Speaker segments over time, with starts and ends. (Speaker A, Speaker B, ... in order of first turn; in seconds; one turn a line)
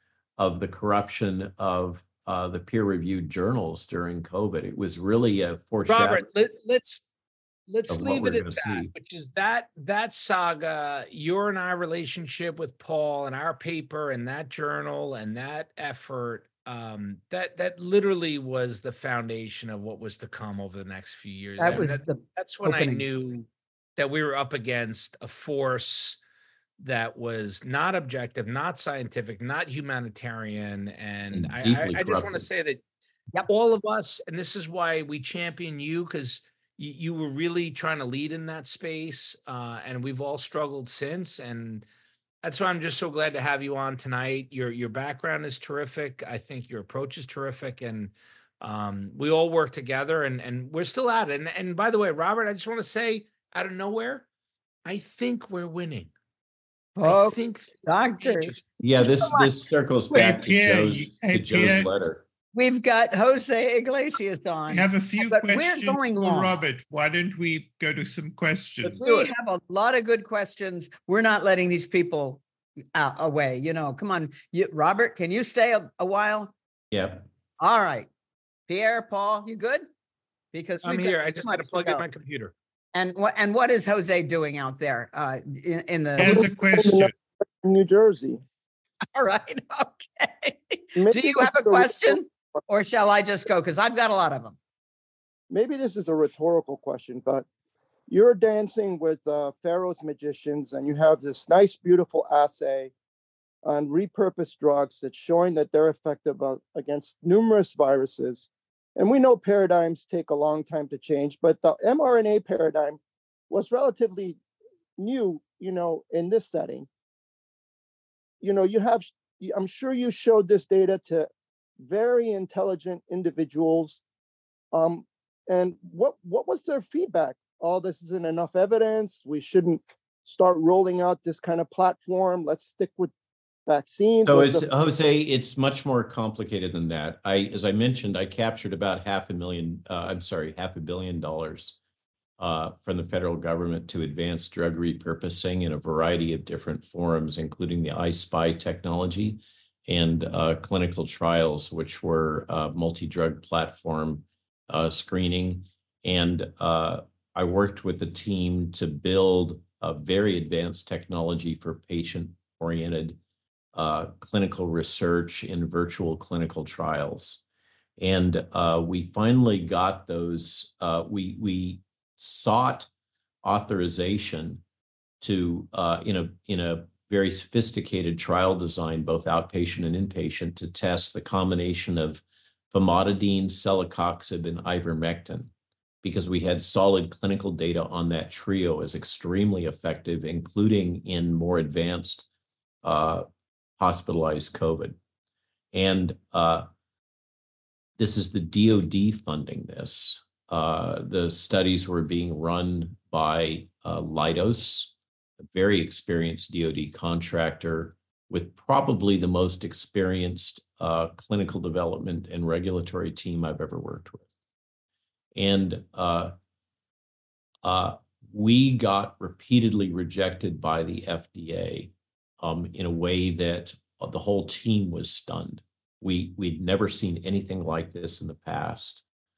Speaker A: 0.4-6.2
Speaker B: 5.9-7.0
Speaker B: 7.7-26.2
Speaker A: 7.9-8.9
Speaker C: 21.6-23.0
Speaker B: 26.8-32.8
Speaker A: 31.3-32.5
Speaker B: 33.5-41.8
Speaker B: 42.4-54.2
Speaker B: 54.8-56.1
Speaker C: 57.0-58.6
Speaker B: 57.0-58.6
Speaker A: 58.8-62.2
Speaker C: 59.2-59.5
Speaker D: 60.2-61.9
Speaker C: 62.5-66.5
Speaker D: 64.7-69.1
Speaker C: 68.8-72.4
Speaker C: 72.9-76.5
Speaker A: 76.9-77.2
Speaker C: 77.6-78.1
Speaker C: 78.7-79.9
Speaker C: 80.5-82.0
Speaker B: 80.8-82.5
Speaker C: 82.9-86.5
Speaker D: 86.2-87.1
Speaker E: 86.2-88.4
Speaker C: 89.1-94.6
Speaker E: 91.0-92.2
Speaker E: 95.5-97.5
Speaker E: 98.1-102.9
Speaker E: 103.6-113.0
Speaker E: 113.5-114.4
Speaker E: 115.0-116.9
Speaker E: 118.4-124.0
Speaker E: 124.7-133.1
Speaker E: 133.7-134.6
Speaker A: 134.2-141.8
Speaker A: 142.4-163.2
Speaker A: 163.7-167.4
Speaker A: 168.0-172.9
Speaker A: 173.4-174.6
Speaker A: 175.2-185.5
Speaker A: 186.0-192.3
Speaker A: 192.8-193.2
Speaker A: 193.8-195.0
Speaker A: 195.7-196.7
Speaker A: 198.0-214.3
Speaker A: 215.3-216.3
Speaker A: 217.6-229.0